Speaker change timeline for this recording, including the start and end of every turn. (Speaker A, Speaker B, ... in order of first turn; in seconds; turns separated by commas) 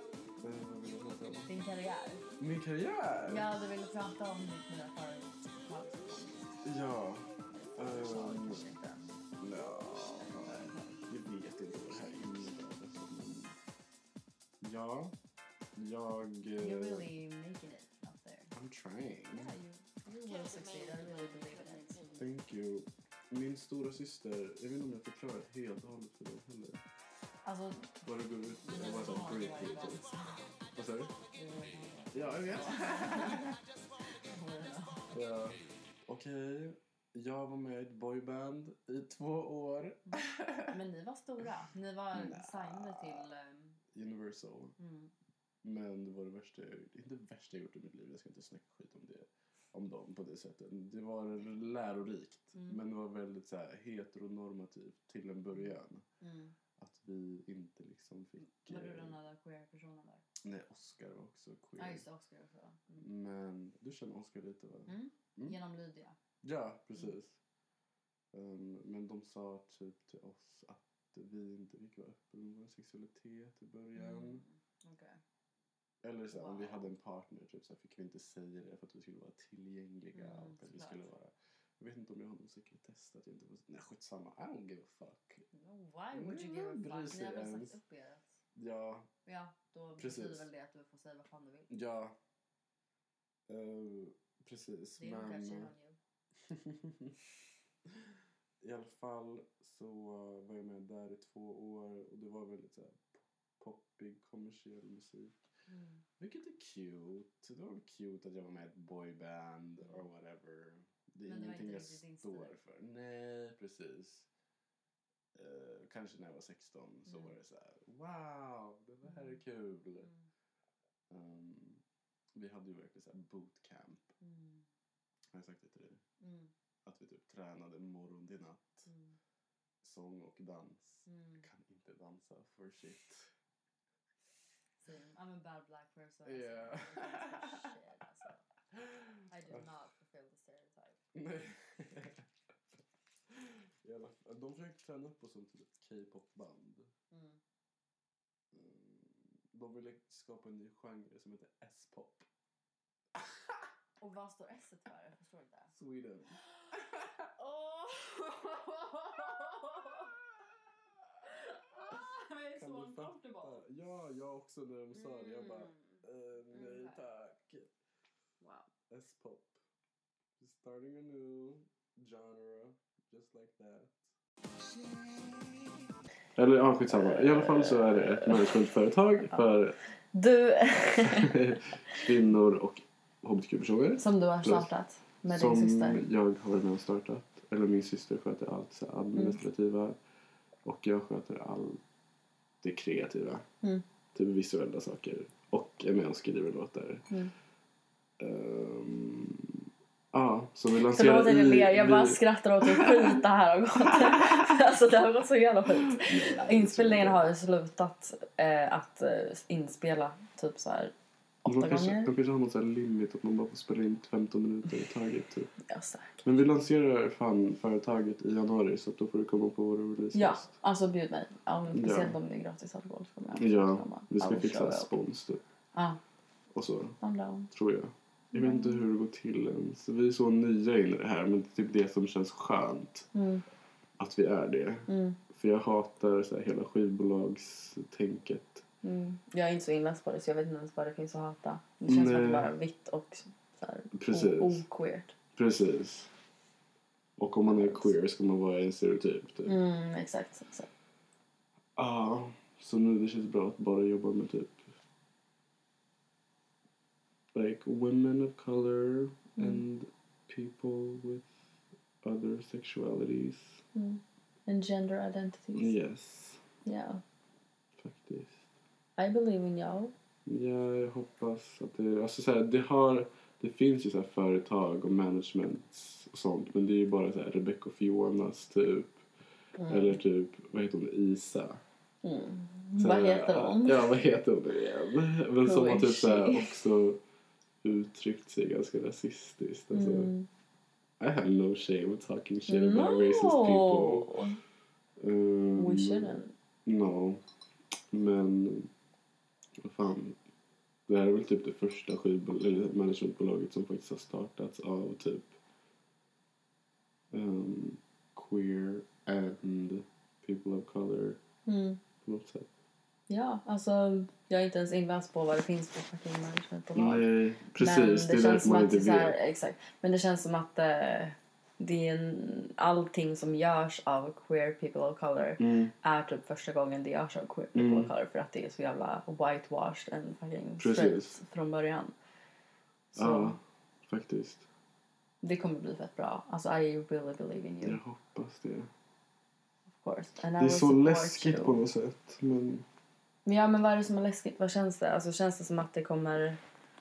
Speaker A: 0.4-1.5, Speaker B: 1.5-2.3, Speaker A: 2.4-3.5, Speaker B: 3.3-6.6, Speaker A: 6.6-8.6, Speaker B: 7.5-9.2, Speaker A: 9.4-13.6, Speaker B: 10.2-11.0, Speaker A: 14.6-15.2, Speaker A: 15.8-17.1, Speaker B: 16.6-18.5, Speaker A: 18.5-19.5, Speaker B: 19.3-22.3, Speaker A: 22.2-26.8, Speaker B: 27.4-27.9, Speaker A: 28.0-30.0, Speaker B: 28.6-30.5, Speaker A: 30.7-31.1, Speaker B: 31.3-33.5, Speaker A: 32.1-33.6, Speaker B: 34.3-35.2, Speaker A: 35.1-40.8, Speaker B: 40.1-43.8, Speaker A: 42.1-43.3, Speaker A: 43.9-44.8, Speaker B: 44.8-45.1, Speaker A: 45.6-56.0, Speaker B: 52.5-52.8, Speaker B: 56.2-56.5, Speaker A: 56.8-59.2, Speaker B: 58.4-60.2, Speaker A: 60.4-62.0, Speaker B: 61.8-63.1, Speaker A: 63.0-65.6, Speaker B: 64.9-66.2, Speaker A: 66.4-67.4, Speaker A: 68.3-74.4, Speaker B: 74.0-75.2, Speaker A: 76.0-85.5, Speaker B: 76.3-76.9, Speaker B: 80.1-81.1, Speaker B: 85.5-88.3, Speaker A: 86.1-87.8, Speaker A: 88.5-89.1, Speaker B: 89.3-91.7, Speaker A: 90.0-90.5, Speaker A: 91.7-92.2, Speaker A: 93.5-95.7, Speaker B: 95.0-96.0, Speaker A: 96.5-97.2, Speaker A: 98.0-105.3, Speaker B: 105.7-106.0, Speaker A: 106.2-114.3, Speaker B: 111.2-112.6, Speaker A: 115.3-120.1, Speaker B: 117.1-117.3, Speaker B: 119.0-119.3, Speaker B: 120.0-120.2, Speaker A: 121.1-121.8, Speaker A: 122.3-124.1, Speaker B: 124.2-124.7, Speaker A: 125.3-126.0, Speaker B: 126.2-126.5, Speaker A: 126.8-128.9, Speaker B: 128.9-129.2, Speaker A: 129.8-133.3, Speaker B: 131.1-131.5, Speaker B: 134.8-138.5, Speaker A: 136.3-137.7, Speaker A: 138.7-139.7, Speaker B: 139.3-141.0, Speaker A: 141.1-142.3, Speaker A: 143.3-146.9, Speaker B: 147.1-147.4, Speaker A: 148.5-152.3, Speaker A: 153.2-153.6, Speaker B: 154.0-155.7, Speaker A: 155.7-157.3, Speaker B: 157.3-160.2, Speaker B: 161.3-163.6, Speaker A: 162.5-167.7, Speaker B: 164.9-167.0, Speaker B: 168.4-168.7, Speaker A: 168.9-169.6, Speaker A: 170.4-174.1, Speaker A: 176.4-179.8, Speaker B: 176.9-179.4, Speaker B: 180.1-181.5, Speaker A: 181.0-184.7, Speaker B: 184.0-186.0, Speaker A: 185.3-190.0, Speaker B: 189.1-189.4, Speaker A: 190.7-191.8, Speaker A: 192.6-193.4, Speaker A: 194.1-197.1, Speaker A: 198.2-199.6, Speaker A: 200.1-203.2, Speaker B: 200.9-210.9, Speaker A: 203.9-204.4, Speaker A: 205.9-207.3, Speaker B: 211.4-212.1, Speaker A: 211.5-215.5, Speaker B: 215.7-216.3, Speaker A: 216.2-220.5, Speaker B: 220.1-224.9, Speaker A: 221.7-222.2, Speaker A: 223.4-225.4, Speaker B: 225.7-226.0, Speaker A: 226.5-227.0, Speaker B: 227.0-227.5, Speaker A: 227.5-233.1, Speaker B: 228.3-228.8, Speaker B: 233.1-233.4, Speaker A: 234.0-238.7, Speaker B: 234.9-235.2, Speaker B: 238.8-245.1, Speaker A: 241.9-242.5, Speaker A: 243.9-244.6, Speaker A: 245.4-246.1, Speaker A: 247.2-249.6, Speaker B: 247.5-247.9, Speaker B: 249.5-250.7, Speaker A: 251.8-254.6, Speaker A: 257.3-261.3, Speaker B: 259.4-259.6, Speaker A: 262.0-263.6, Speaker B: 263.8-265.7, Speaker A: 265.6-266.4, Speaker B: 266.6-267.0, Speaker A: 267.8-268.4, Speaker B: 269.0-269.9, Speaker A: 270.3-279.1, Speaker B: 279.6-280.0, Speaker A: 279.7-281.6, Speaker B: 282.0-283.9, Speaker A: 282.8-287.0, Speaker B: 285.4-286.6, Speaker A: 287.6-290.1, Speaker B: 289.7-290.3, Speaker A: 291.0-294.1, Speaker B: 292.5-294.4, Speaker A: 295.0-296.1, Speaker B: 295.6-296.3, Speaker A: 296.6-297.2, Speaker A: 297.9-298.7, Speaker A: 299.6-300.2, Speaker A: 300.9-305.4, Speaker A: 307.1-311.2, Speaker B: 311.5-311.8, Speaker A: 312.0-312.5, Speaker B: 313.1-331.9, Speaker A: 316.7-319.2, Speaker A: 325.4-325.7, Speaker A: 327.6-327.9, Speaker A: 330.6-331.2, Speaker B: 332.9-333.4, Speaker A: 332.9-334.5, Speaker B: 335.2-337.8, Speaker A: 337.6-338.7, Speaker B: 339.8-341.6, Speaker A: 340.4-342.7, Speaker B: 343.3-346.4